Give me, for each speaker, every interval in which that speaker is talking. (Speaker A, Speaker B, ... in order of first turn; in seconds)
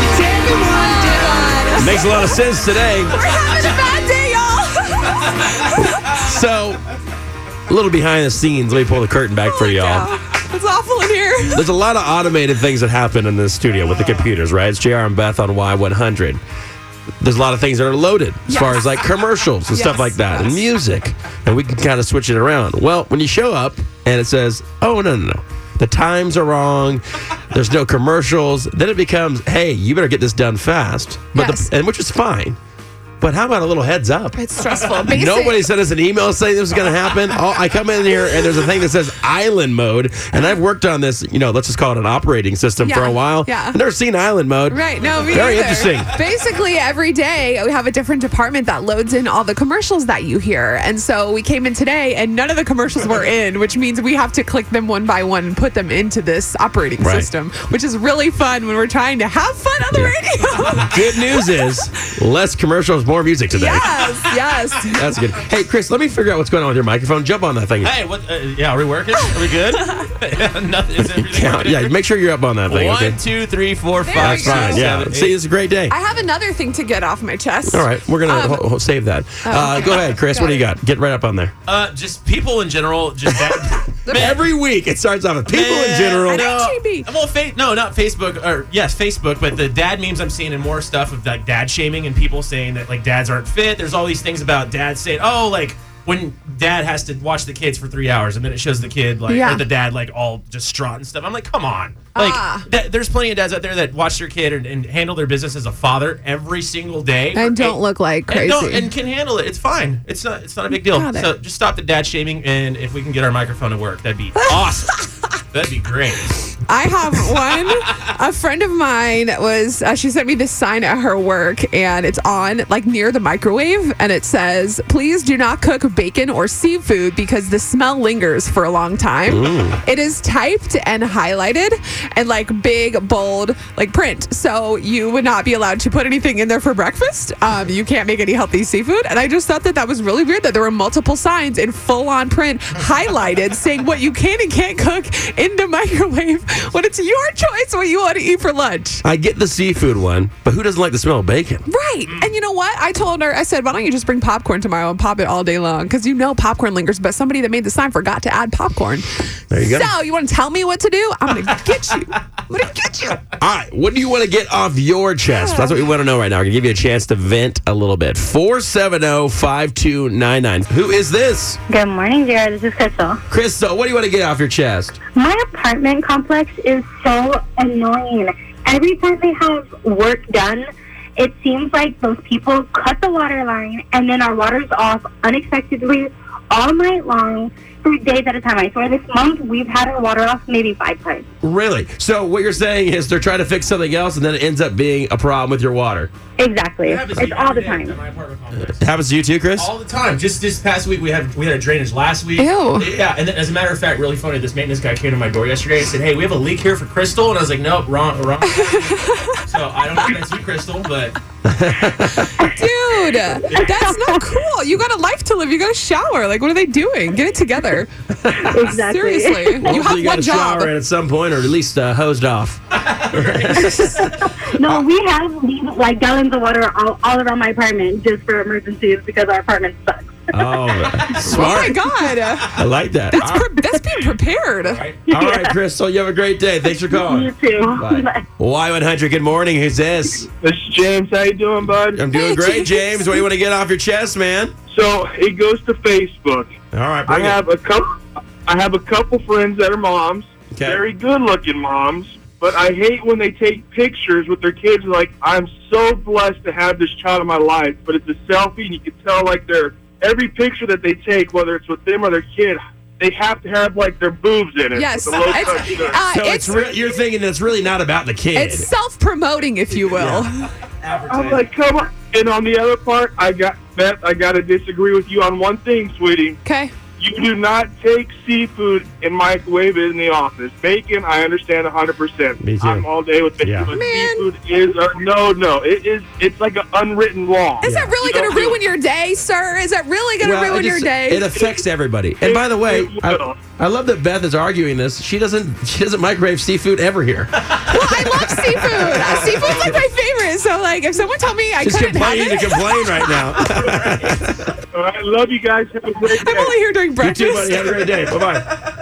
Speaker A: 0.3-2.4, 3.0-6.0, 9.4-11.7, 18.5-19.1, 19.7-20.6, 31.3-31.7, 34.4-35.7, 42.8-43.8, 44.7-61.8, 63.5-65.0, 69.7-70.0, 74.0-74.9, 75.9-78.7, 79.4-80.7, 84.0-84.4, 86.3-87.1, 99.3-99.6, 102.1-102.7, 107.3-108.9, 110.7-111.3, 114.3-115.1, 116.7-149.0, 151.7-163.2, 165.3-165.8, 202.4-202.9, 208.4-209.4, 212.4-217.9, 218.6-220.7, 231.2-232.6, 233.1-234.8, 242.1-243.2, 264.7-266.7, 268.3-270.5, 276.4-276.7, 283.7-284.3, 287.6-291.2, 297.7-303.4, 306.1-307.8
Speaker B: 1.8-3.2, 5.7-6.8, 7.7-10.1, 11.5-16.4, 17.2-32.6, 33.2-34.4, 35.1-46.1, 57.0-57.3, 60.8-64.0, 64.9-67.9, 71.2-73.2, 74.1-75.9, 77.7-81.5, 84.1-86.5, 129.3-129.8, 149.0-151.7, 159.5-159.9, 163.4-171.6, 173.3-175.0, 191.4-196.1, 198.6-199.7, 211.4-212.3, 218.2-218.6, 219.6-224.8, 230.3-231.8, 232.6-233.4, 235.1-240.3, 241.9-244.5, 246.7-247.4, 250.5-250.8, 266.1-268.7, 269.9-270.3, 282.4-282.9, 283.4-283.7, 287.6-287.9, 290.2-299.8, 301.6-304.6, 307.0-308.4
Speaker C: 67.8-71.9, 72.7-75.4, 81.7-84.4, 85.5-116.4, 196.8-198.8, 199.6-211.2, 222.8-224.1, 230.8-231.7, 234.6-235.1, 270.8-271.5, 299.1-299.3
Speaker D: 171.7-173.2, 175.2-180.7, 181.2-191.3, 196.4-198.0, 213.6-214.1, 218.5-219.6, 224.6-230.3, 235.1-235.5, 236.9-238.2
Speaker E: 240.4-242.0, 244.7-246.5, 247.1-266.0, 271.1-276.4, 277.0-288.6, 291.3-291.6, 292.2-293.4, 304.7-306.5